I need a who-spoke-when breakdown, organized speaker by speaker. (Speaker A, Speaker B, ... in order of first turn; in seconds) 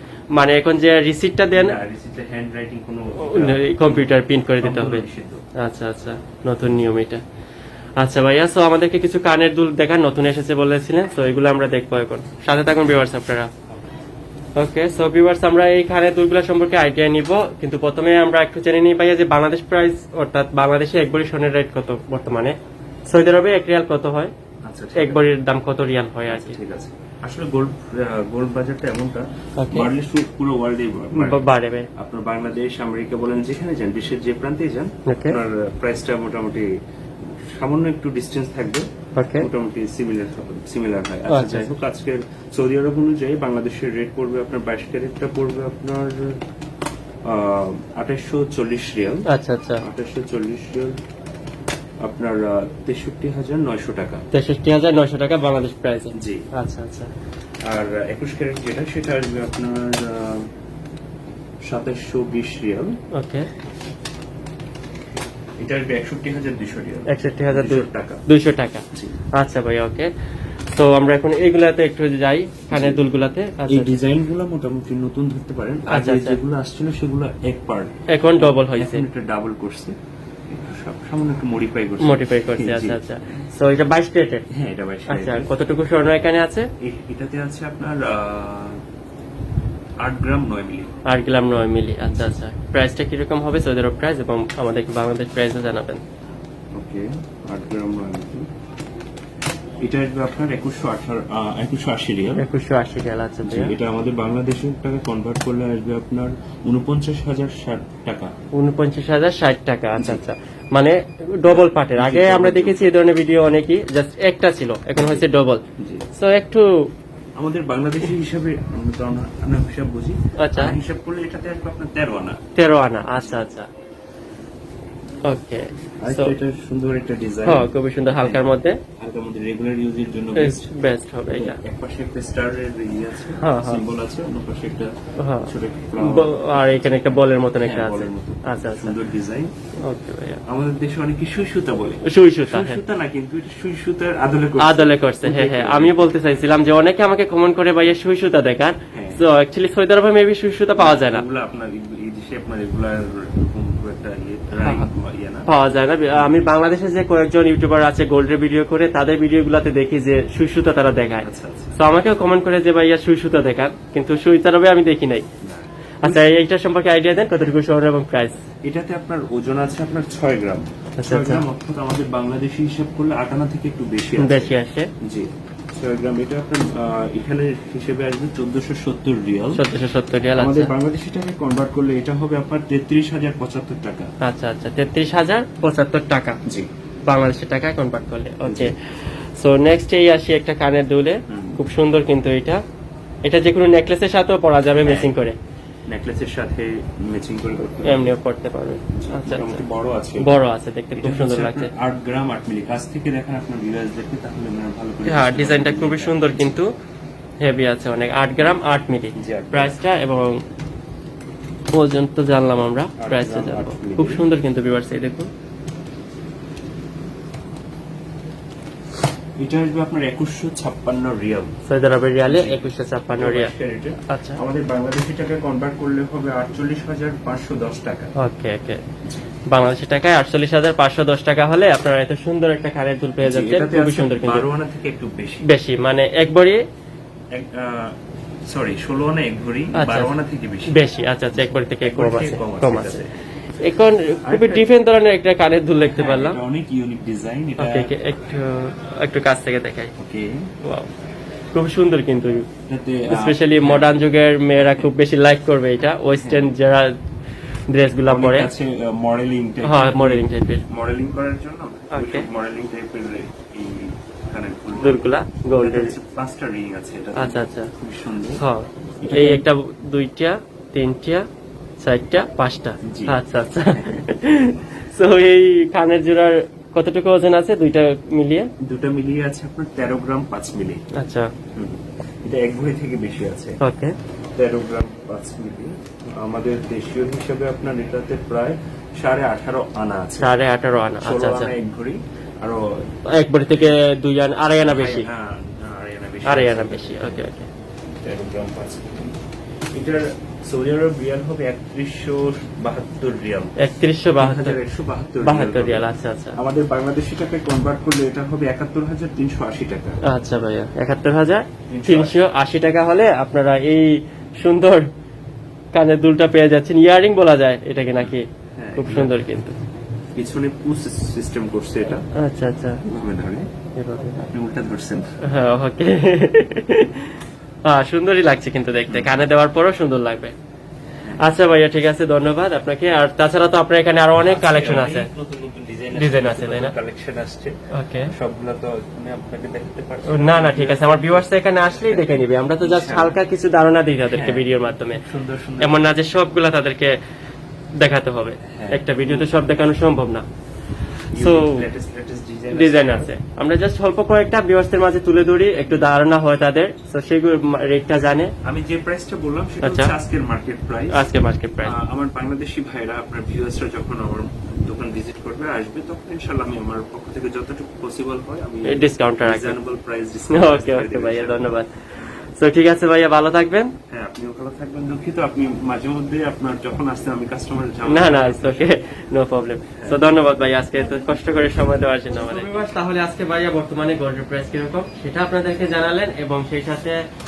Speaker A: 0.3-1.8, 3.2-5.0, 5.6-7.2, 8.0-13.5, 14.6-22.5, 23.1-24.3, 24.9-26.6, 29.6-29.9, 31.1-31.9, 35.1-35.4, 39.1-39.5, 41.3-41.7, 49.3-49.8, 54.3-57.1, 63.1-63.5, 67.1-70.1, 70.7-74.0, 75.9-76.4, 78.1-79.0, 82.0-84.5, 85.1-86.7, 91.0-96.0, 102.4-103.7, 108.5-115.6, 116.2-116.9, 120.4-120.8, 122.5-123.7, 125.3-126.3, 127.5-128.8, 130.3-131.6, 133.4-133.8, 135.2-139.0, 139.8-140.4, 142.0-142.8, 144.6-151.2, 154.6-154.9, 155.5-165.2, 166.0-168.4, 171.0-171.4, 174.2-174.9, 179.5-180.7, 184.2-186.4, 187.1-192.6, 193.2-195.4, 197.8-199.6, 200.2-201.7, 205.1-206.7, 207.4-210.4, 211.7-215.3, 221.7-223.5, 224.1-224.4, 228.2-228.8, 229.5-234.5, 235.5-236.6, 239.7-240.1, 240.7-243.0, 243.6-246.4, 247.6-249.9, 250.6-250.9, 251.5-252.5, 253.1-257.0, 257.7-258.5, 259.6-260.6, 261.9-262.3, 264.7-265.9, 267.1-267.7, 268.4-271.2, 271.8-278.5, 280.9-281.3, 283.6-283.9, 290.2-291.5, 293.1-295.1, 296.2-297.5, 303.6-304.6, 305.2-306.4, 310.0-314.9, 315.7-319.6, 322.1-322.8, 323.8-324.3, 325.2-330.3, 331.2-335.1, 335.9-336.7, 337.7-338.1, 340.1-345.0, 345.6-346.9, 347.8-350.2, 351.1-351.6, 352.5-358.3, 359.6-359.9, 360.9-361.8, 368.7-369.6, 370.3-371.7, 372.4-373.7, 377.9-387.0
Speaker B: 1.5-5.4, 24.6-25.2, 26.3-31.4, 31.9-36.7, 37.3-38.9, 39.4-46.4, 47.2-49.3, 49.8-51.0, 52.0-54.2, 56.1-56.5, 57.6-60.5, 61.6-63.0, 65.6-68.2, 68.9-69.2, 72.7-73.0, 73.7-79.9, 80.5-83.0, 84.5-85.5, 86.8-88.8, 90.0-90.9, 96.7-98.5, 99.8-102.4, 103.4-108.3, 110.0-110.2, 111.5-113.0, 115.0-115.2, 115.8-116.0, 117.4-122.4, 126.0-128.4, 129.0-130.7, 131.3-139.5, 140.4-146.1, 148.9-149.2, 150.8-155.5, 156.1-156.4, 161.2-161.8, 165.4-166.2, 168.6-179.6, 180.3-184.1, 188.4-188.7, 191.3-191.6, 194.8-195.1, 195.9-198.1, 198.9-200.3, 200.9-206.6, 209.1-209.8, 213.0-214.2, 219.4-221.5, 222.2-228.1, 229.0-229.3, 233.2-235.5, 237.3-243.1, 244.2-244.6, 245.8-247.9, 250.0-250.5, 252.7-254.0, 256.2-256.5, 258.0-265.0, 265.6-268.4, 269.0-269.4, 272.8-273.2, 273.7-274.0, 278.6-280.9, 281.5-283.6, 284.4-290.4, 291.0-292.8, 294.6-297.3, 298.0-299.1, 299.7-303.5, 304.1-310.0, 311.7-312.1, 318.0-319.1, 320.1-322.1, 322.8-323.5, 324.3-325.2, 328.9-329.2, 334.2-343.2, 344.0-345.8, 348.4-349.3, 351.1-353.1, 358.4-361.0, 361.6-371.5, 373.9-378.7, 379.7-380.1, 380.8-382.6